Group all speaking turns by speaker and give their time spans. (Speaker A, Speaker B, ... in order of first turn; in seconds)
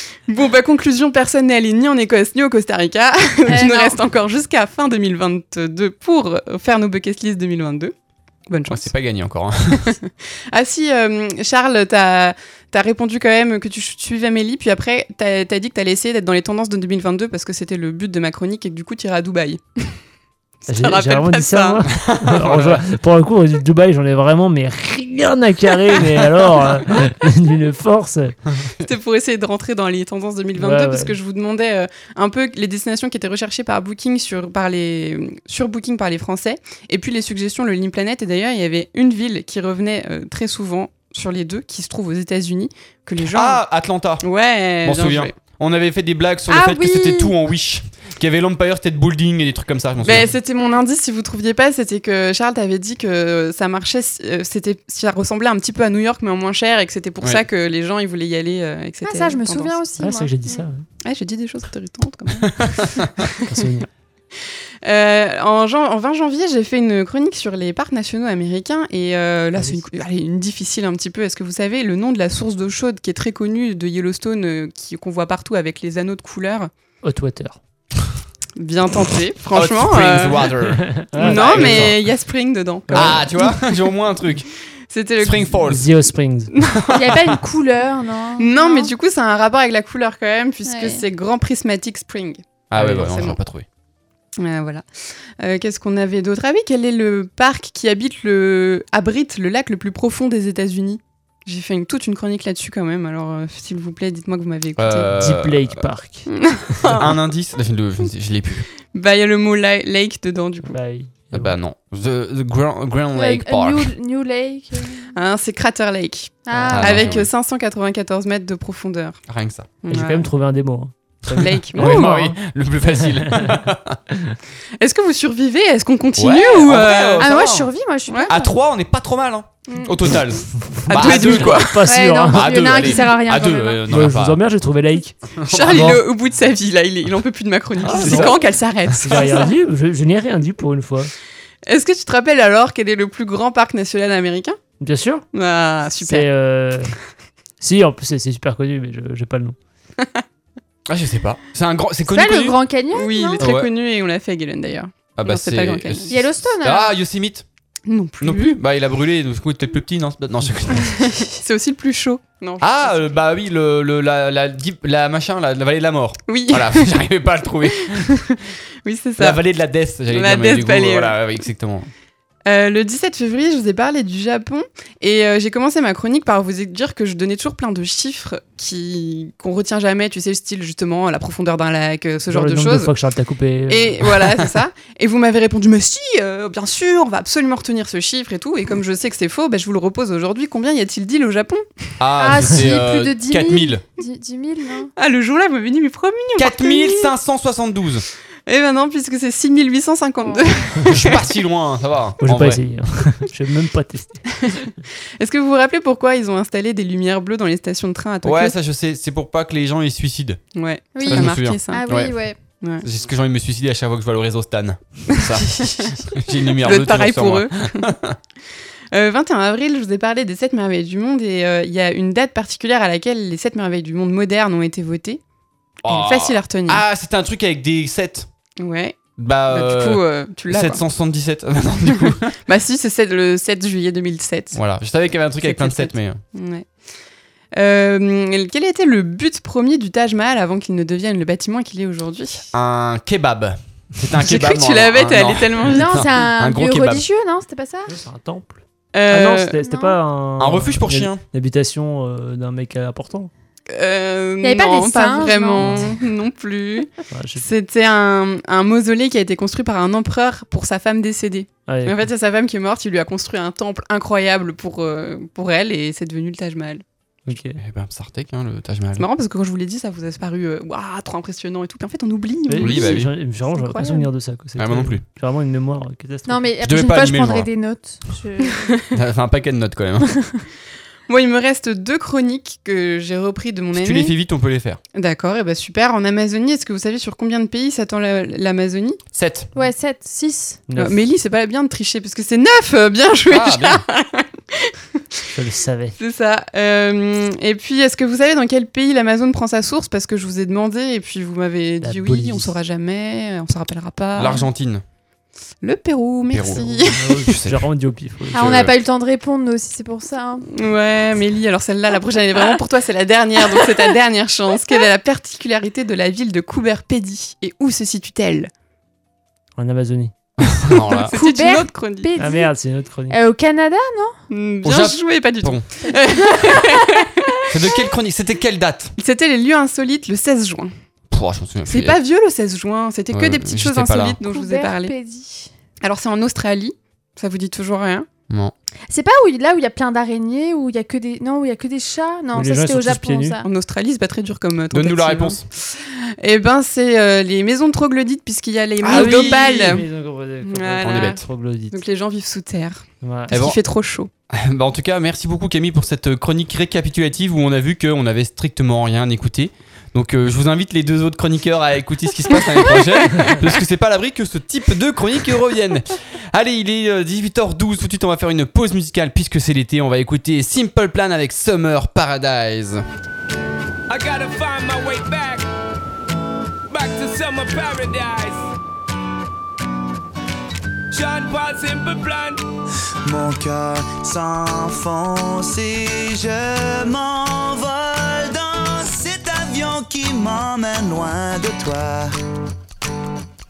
Speaker A: 0.3-7.9, 8.5-8.9, 9.8-19.9, 20.6-21.8, 28.8-43.6, 44.2-45.3, 50.0-59.8, 61.0-63.1, 64.8-76.7, 78.6-80.5, 81.2-83.5, 84.9-85.5, 86.5-86.9, 88.4-93.4, 94.4-94.8, 95.4-105.1, 106.3-107.1, 108.9-110.8, 115.1-119.2, 119.8-120.3, 121.3-122.0, 124.8-127.4, 130.9-131.8, 135.5-139.5, 141.7-144.6, 145.3-146.3, 152.9-156.2, 157.9-158.6, 160.8-163.1, 166.3-167.0, 167.7-169.4, 170.1-171.2, 172.4-182.9, 183.7-191.8, 195.0-197.1, 198.5-201.2, 205.2-208.5, 210.6-211.8, 215.1-215.9, 216.6-217.9, 218.9-225.2, 225.8-226.8, 228.6-229.0, 229.5-230.8, 231.9-234.6, 235.4-236.7, 237.6-242.4, 244.2-245.9, 248.9-249.6, 253.7-266.8, 269.0-273.0, 281.1-284.1, 284.9-289.0, 290.8-294.7, 296.0-304.4, 305.6-307.2, 310.5-318.5, 320.7-322.1, 324.3-327.4, 329.0-330.7, 331.7-334.9, 335.8-338.1, 343.4-349.8, 350.4-354.1
Speaker B: 3.5-4.0, 46.5-47.3, 59.0-60.6, 86.9-88.9, 90.6-91.0, 113.1-115.1, 116.5-117.1, 127.2-128.5, 131.8-133.8, 152.1-153.4, 156.1-156.9, 192.2-194.9, 200.3-200.6, 210.9-212.4, 245.7-247.9, 254.4-255.8, 273.5-274.1, 276.3-278.8, 289.6-290.6, 308.3-310.4, 321.1-322.5, 323.1-324.2, 325.8-327.0, 334.2-335.5, 338.9-343.4
Speaker C: 8.7-9.9, 22.0-22.8, 43.3-44.2, 44.8-50.3, 79.5-82.0, 82.9-84.5, 85.2-85.9, 86.9-87.3, 92.7-93.6, 104.8-105.9, 107.0-108.7, 111.3-113.9, 116.7-117.3, 119.3-119.7, 121.8-124.0, 126.2-127.7, 128.3-131.7, 132.2-134.4, 135.4-136.0, 137.8-138.4, 150.9-152.6, 153.4-153.7, 155.2-157.4, 158.2-161.1, 162.6-168.2, 169.2-171.9, 192.0-193.8, 196.4-198.1, 200.9-202.6, 208.2-210.4, 211.0-212.2, 212.8-218.2, 225.8-228.3, 229.2-232.3, 234.6-236.2, 242.5-247.0, 250.4-251.2, 267.6-269.1, 272.6-273.1, 274.6-275.0, 276.6-277.5, 278.9-280.2, 283.8-284.8, 289.1-289.5, 293.3-293.8, 304.2-304.8, 306.3-307.6, 308.3-308.7, 320.6-321.1, 324.6-325.6, 327.5-328.9, 331.1-332.0, 333.1-334.2, 344.7-345.4, 348.8-349.8, 350.8-351.2, 353.3-353.6, 354.3-372.8
Speaker D: 20.7-28.4, 30.6-31.1, 60.0-60.8, 63.4-63.9, 69.6-69.8, 77.0-77.6, 80.7-81.9, 82.9-83.2, 85.6-86.5, 92.7-93.1, 105.2-107.0, 110.7-111.6, 116.5-117.0, 119.9-122.4, 123.0-123.6, 130.7-132.9, 133.9-136.0, 138.0-138.3, 138.8-141.1, 144.8-145.2, 146.0-146.9, 147.6-149.6, 182.3-184.1, 202.2-204.2, 247.9-253.3, 255.6-255.9, 257.1-257.4, 261.7-262.1, 267.2-267.6, 272.5-276.5, 290.7-291.0, 295.3-295.9, 301.8-302.5, 306.9-308.6, 319.6-320.1, 322.2-323.2, 342.3-343.4, 348.8-351.8, 353.0-353.3
Speaker E: 373.9-375.5, 376.7-378.5, 380.9-382.4
Speaker F: 383.1-392.1